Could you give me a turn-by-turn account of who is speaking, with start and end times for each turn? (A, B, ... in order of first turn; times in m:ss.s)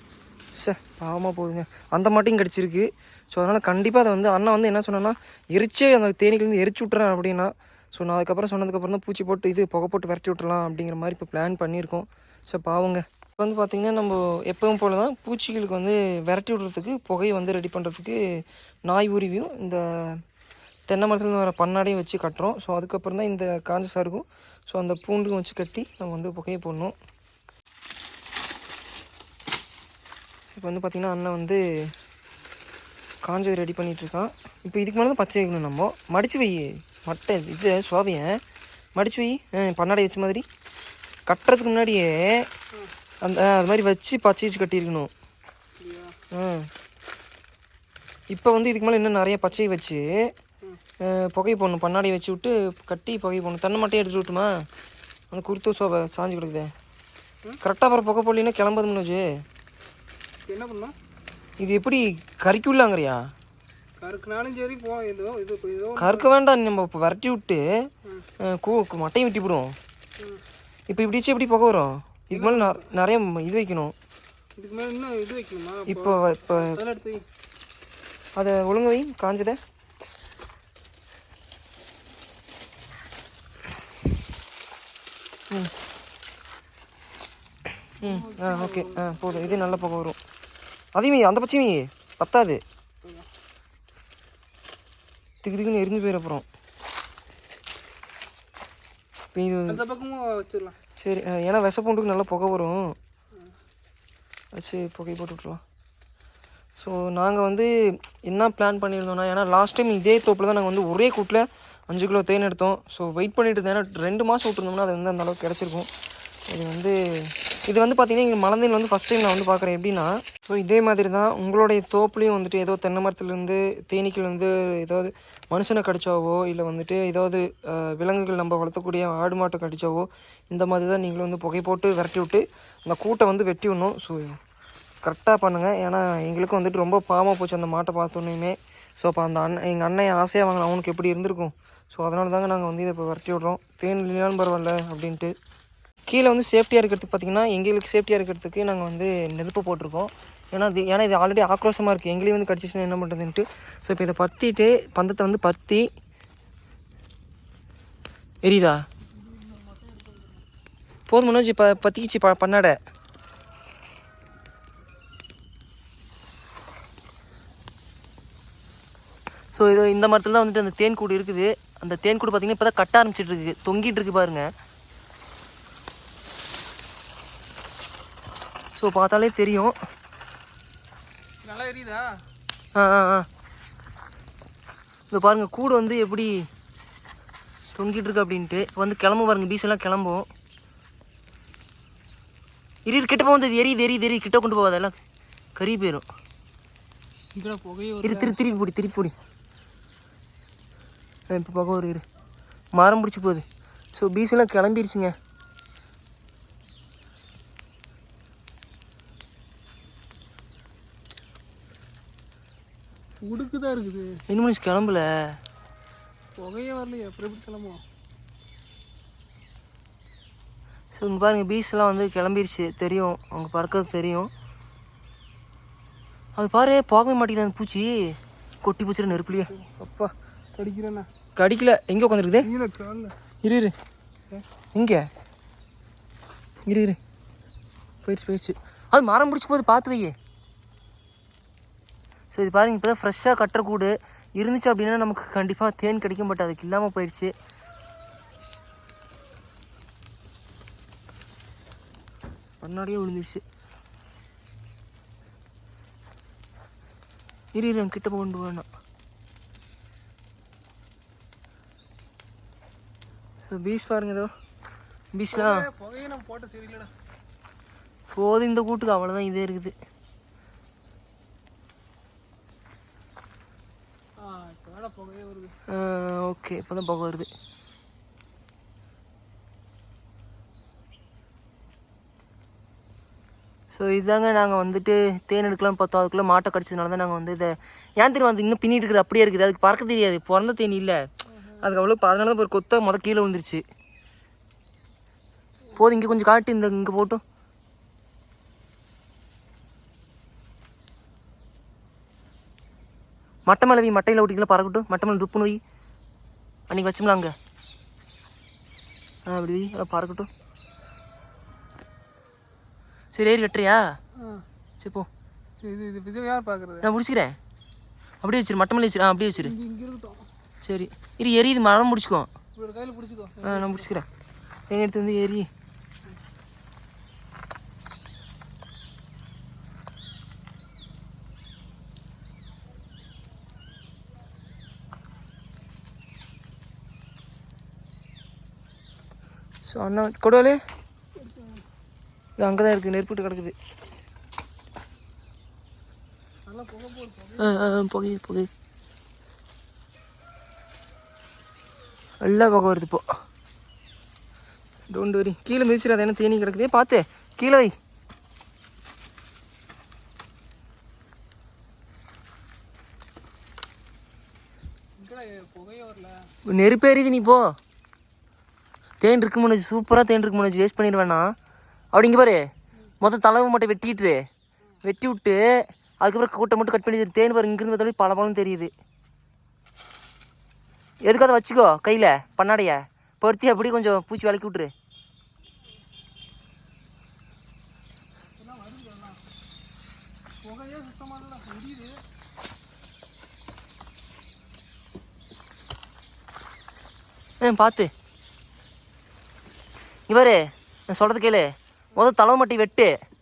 0:00.6-0:18.2 A
0:18.9-0:20.2 A
0:20.9-0:27.0 A
0:30.5-0:31.6 A
0:33.2-0:38.4 A
0:39.0-0:40.4 A
0:41.3-0:42.5 A
0:43.2-0:45.1 A
0:45.8-0:46.2 B
0:46.3-0:46.7 A
0:48.3-0:50.0 A
0:51.0-0:54.5 A
0:55.3-0:56.7 A
0:57.6-0:59.2 A
1:00.5-1:00.9 B
1:01.6-1:03.2 A
1:04.0-1:06.3 B
1:06.0-1:07.6 A
1:08.4-1:09.7 A
1:10.9-1:13.9 A
1:12.3-1:12.9 B
1:14.6-1:17.2 B
1:15.9-1:16.8 A
1:18.4-1:19.6 A
1:28.0-1:29.8 B
1:28.0-1:30.2 A
1:31.0-1:32.6 A
1:35.4-1:36.4 A
1:39.4-1:39.8 A
1:39.7-1:40.8 B
1:41.0-1:43.0 A
1:44.6-1:45.6 A
1:46.8-1:47.7 A
1:48.3-1:55.9 A
1:56.5-2:14.4 A
2:15.0-2:25.3 A
2:26.1-2:35.8 A
2:38.4-2:38.8 A
2:39.2-2:40.4 B
2:41.1-2:42.8 A
2:49.6-2:54.5 A
2:58.8-2:59.8 A
3:01.4-3:02.1 B
3:02.8-3:03.3 A
3:05.1-3:06.4 A
3:07.7-3:10.3 A
3:12.9-3:14.9 A
3:15.6-3:16.1 A
3:17.4-3:18.4 B
3:18.0-3:19.1 A
3:21.3-3:22.0 A
3:22.8-3:23.4 A
3:24.0-3:25.1 A
3:33.2-3:34.2 B
3:34.3-3:35.1 A
3:36.4-3:37.8 B
3:40.9-3:44.3 A
3:46.4-3:50.1 A
3:49.2-3:49.7 B
3:50.6-3:51.1 B
3:51.4-3:52.5 A
3:52.4-3:53.2 B
3:53.4-3:53.7 A
3:54.8-3:55.0 A
3:56.7-3:57.0 A
3:58.0-4:00.2 A
4:02.3-4:07.3 A
4:12.6-4:13.4 A
4:17.6-4:18.7 A
4:23.5-4:24.3 A
4:25.2-4:25.6 A
4:25.3-4:26.9 B
4:28.1-4:29.7 A
4:34.2-4:35.5 B
4:35.7-4:37.3 A
4:43.7-4:51.0 A
4:51.6-4:53.6 A
4:55.8-4:57.2 A
5:03.5-5:05.6 A
5:06.7-5:07.3 A
5:09.3-5:10.3 A
5:13.1-5:13.8 A
5:14.2-5:14.4 B
5:14.8-5:15.1 A
5:15.6-5:16.9 B
5:16.8-5:17.4 A
5:18.2-5:19.5 A
5:19.4-5:20.3 B
5:20.6-5:22.3 A
5:22.6-5:23.9 B
5:23.4-5:24.1 A
5:24.7-5:25.5 A
5:39.7-5:40.6 A
5:41.2-5:41.6 B
5:42.4-5:43.5 A
5:46.5-5:47.6 B
5:47.4-5:48.5 A
5:52.2-5:53.0 A
5:54.9-5:57.7 A
6:05.0-6:06.1 B
6:06.5-6:07.4 A
6:09.0-6:11.3 A
6:11.9-6:12.4 A
6:13.0-6:14.2 A
6:14.9-6:15.4 A
6:16.0-6:18.7 A
6:21.1-6:24.7 A
6:28.4-6:29.2 B
6:30.4-6:32.0 B
6:37.4-6:37.9 A
6:40.1-6:42.9 A